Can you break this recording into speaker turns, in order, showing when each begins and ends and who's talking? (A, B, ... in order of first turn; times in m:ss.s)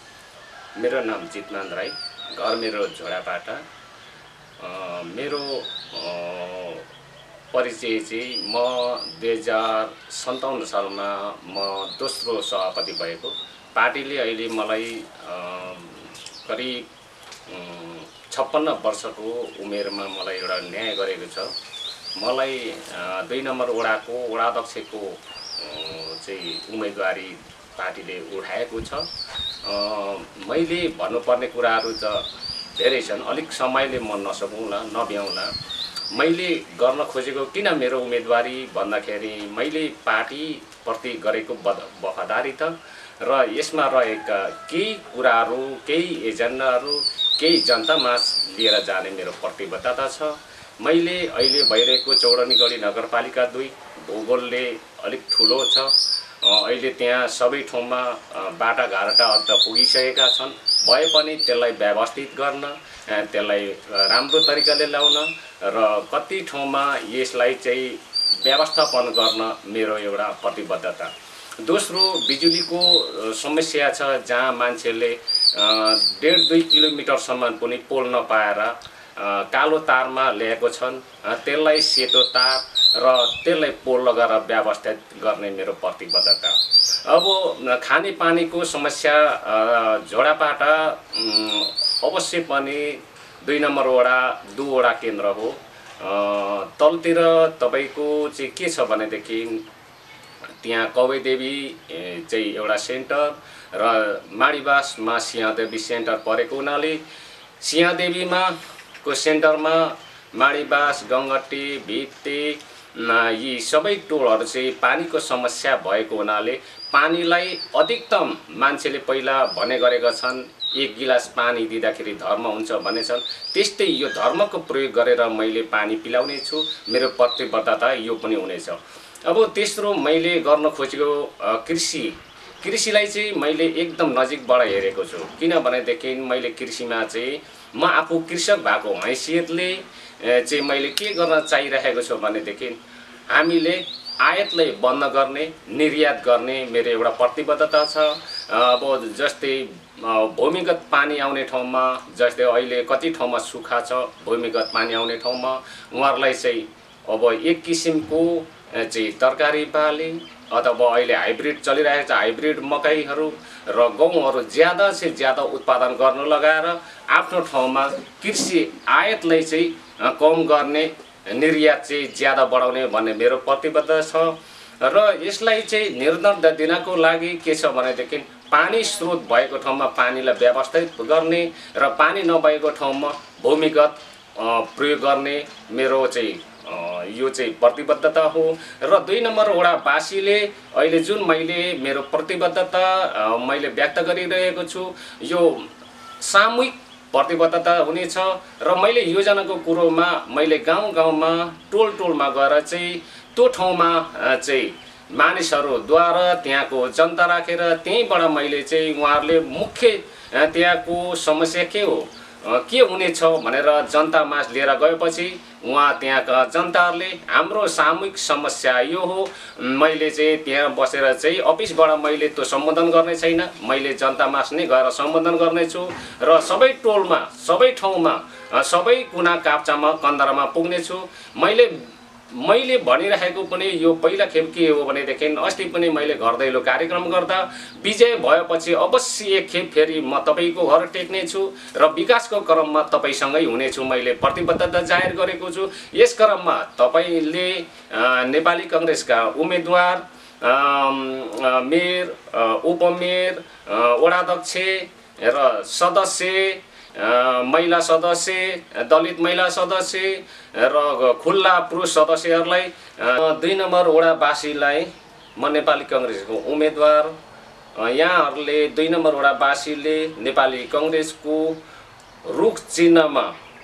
0:00.8-0:03.6 A
0:04.6-0:06.9 A
0:07.5-0:16.9 A
0:17.5-0:21.5 A
0:22.2-0:29.1 A
0:29.6-0:35.5 A
0:36.1-1:11.1 A
1:11.6-1:39.6 A
1:40.6-1:47.0 A
1:47.6-2:22.8 A
2:23.3-3:51.8 A
3:52.3-4:27.2 A
4:27.8-4:31.6 A
4:32.2-4:33.4 A